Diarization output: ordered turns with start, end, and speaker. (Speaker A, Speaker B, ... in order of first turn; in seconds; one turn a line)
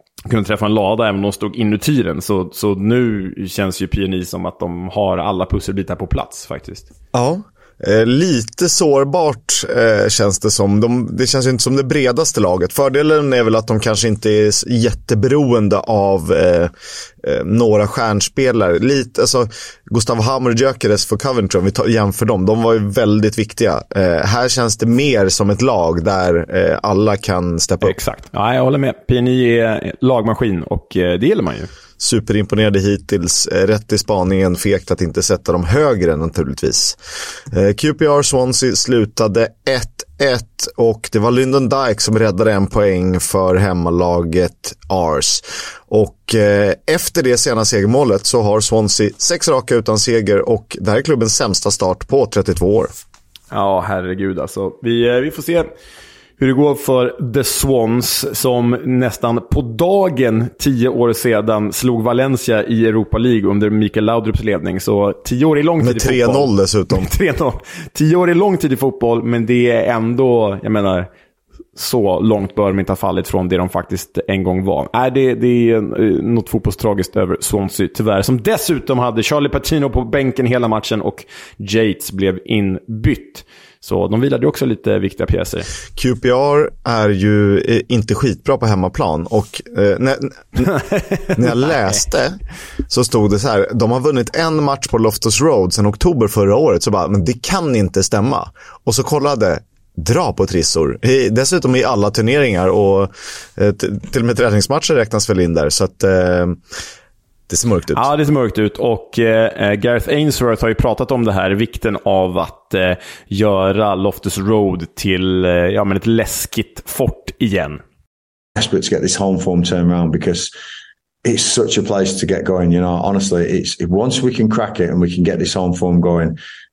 Speaker A: 0.3-6.9
Speaker B: 7.1-16.7
Speaker B: 17.2-27.9
Speaker A: 27.8-31.7
Speaker B: 32.0-37.0
Speaker B: 37.5-52.9
Speaker A: 53.5-55.7
Speaker A: 56.4-71.1
Speaker B: 65.8-67.1
Speaker A: 71.8-85.7
Speaker B: 86.0-90.7
Speaker B: 91.3-92.4
Speaker B: 92.9-106.6
Speaker B: 107.5-108.1
Speaker A: 107.9-117.8
Speaker C: 118.5-120.5
Speaker C: 121.2-126.4